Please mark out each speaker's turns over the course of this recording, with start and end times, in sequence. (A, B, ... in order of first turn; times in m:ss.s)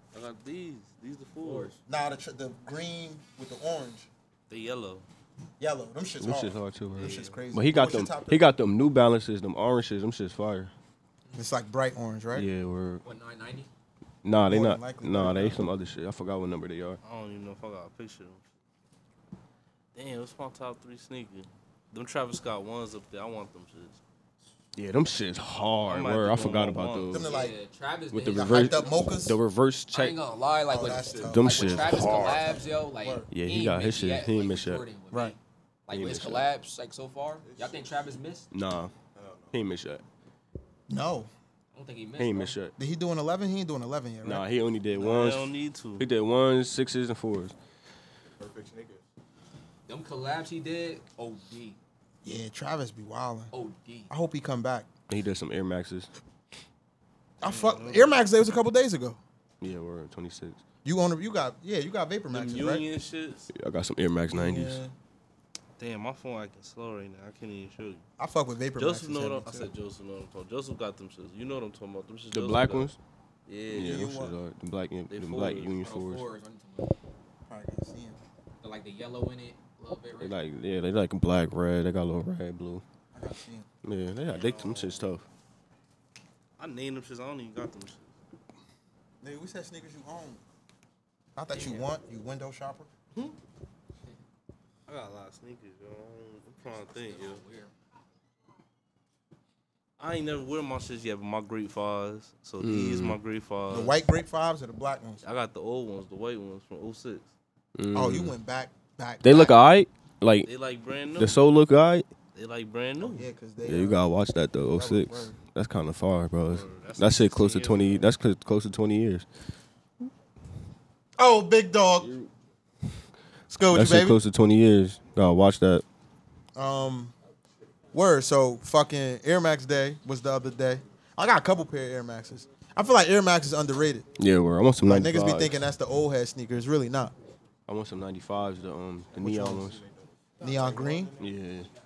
0:00.1-0:01.7 A
0:01.4-0:01.7 B
0:01.9-0:04.1 C
0:04.5-0:05.0 A
0:05.6-0:08.5 C
0:06.2-0:10.7 D
0:06.9-0:07.4 A
0:11.3-0:12.5 C
0:12.3-0:13.0 D
0:13.0-0:13.7 B
0:14.2-0:17.0 D
0:14.4-0:15.6 C
0:17.0-0:18.4 A
0:19.9-0:24.0 A
0:24.7-0:27.3 D
0:25.8-0:27.2 A
0:27.1-0:27.6 C
0:27.2-0:28.8 B
0:28.1-0:30.2 D
0:28.2-0:29.4 C
0:29.9-0:38.5 B
0:30.7-0:33.3 C
0:30.8-0:32.6 E
0:31.2-0:32.4 D
0:33.3-0:34.8 D
0:35.9-0:36.5 D
0:37.4-0:38.2 E
0:38.5-0:38.9 D
0:39.1-0:39.6 E
0:39.5-0:40.0 D
0:40.9-0:41.3 C
0:41.7-0:42.6 B
0:42.2-0:42.7 D
0:42.8-0:44.4 C
0:44.2-0:47.5 D
0:44.9-0:46.0 A
0:48.4-0:49.0 E
0:49.9-0:51.8 B
0:52.2-0:53.5 C
0:53.5-0:54.1 B
0:54.1-0:54.9 C
0:55.1-0:56.1 D
0:57.4-0:58.1 A
0:57.4-0:59.2 C
0:59.6-1:00.6 D
1:00.8-1:02.8 C
1:02.3-1:03.5 A
1:03.5-1:04.8 D
1:04.3-1:04.9 C
1:05.8-1:08.0 A
1:08.2-1:09.7 C
1:08.8-1:12.9 A
1:12.3-1:13.0 D
1:13.5-1:14.1 A
1:13.7-1:16.3 D
1:13.7-1:14.4 C
1:15.1-1:15.8 A
1:15.8-1:16.9 B
1:17.5-1:18.2 C
1:18.6-1:20.4 B
1:20.2-1:22.8 D
1:23.1-1:23.7 C
1:23.8-1:25.2 D
1:24.3-1:25.1 A
1:26.6-1:28.1 A
1:29.2-1:30.4 C
1:31.4-1:32.9 C
1:31.5-1:31.8 B
1:34.9-1:37.4 A
1:36.6-1:37.7 B
1:40.0-1:44.0 A
1:42.6-1:43.2 D
1:43.7-1:45.2 C
1:45.2-1:47.3 A
1:47.8-1:48.3 D
1:47.9-1:49.6 C
1:49.2-1:50.5 D
1:50.4-1:51.4 A
1:51.2-1:52.1 D
1:52.3-1:53.3 A
1:53.0-1:54.0 C
1:53.6-1:59.2 D
1:54.7-1:55.4 C
1:56.5-1:58.0 A
2:01.2-2:02.1 C
2:02.0-2:02.3 D
2:03.5-2:04.2 C
2:03.7-2:05.8 D
2:06.6-2:07.1 C
2:07.9-2:14.1 C
2:14.2-2:15.5 D
2:14.8-2:17.1 C
2:17.7-2:19.8 D
2:19.2-2:19.7 C
2:19.5-2:21.2 E
2:20.4-2:21.2 C
2:21.2-2:21.7 D